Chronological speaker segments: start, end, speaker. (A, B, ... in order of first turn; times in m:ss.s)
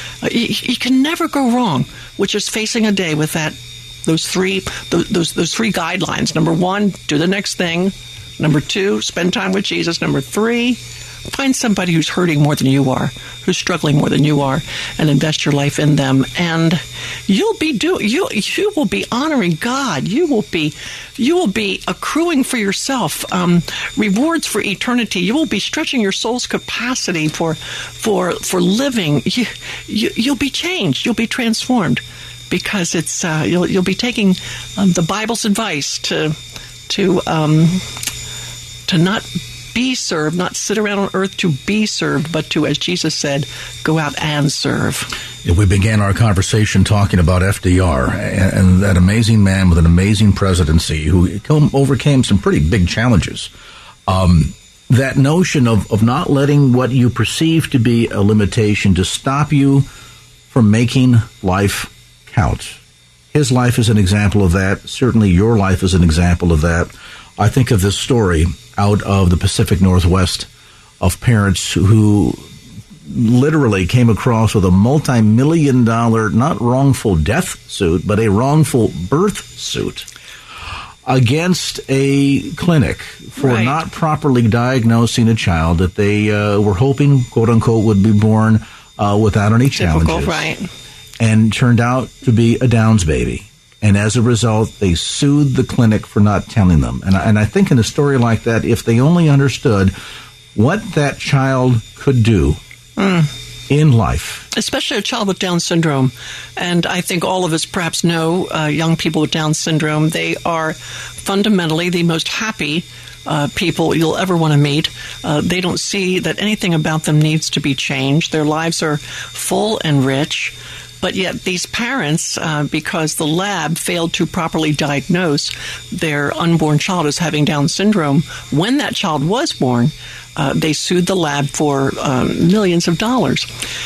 0:00.2-0:36.4 A
0:36.9-0:38.0 A
0:38.9-0:45.1 A
0:45.4-0:53.5 B
0:54.1-0:59.9 B
1:00.5-1:02.8 B
1:03.3-1:10.5 B
1:11.0-1:12.4 B
1:13.1-1:20.1 B
1:21.0-1:30.5 B
1:23.4-1:23.8 A
1:29.7-1:30.7 A
1:31.2-1:40.0 B
1:40.6-1:42.6 B
1:43.0-1:43.3 A
1:43.7-1:44.5 B
1:44.5-2:13.5 A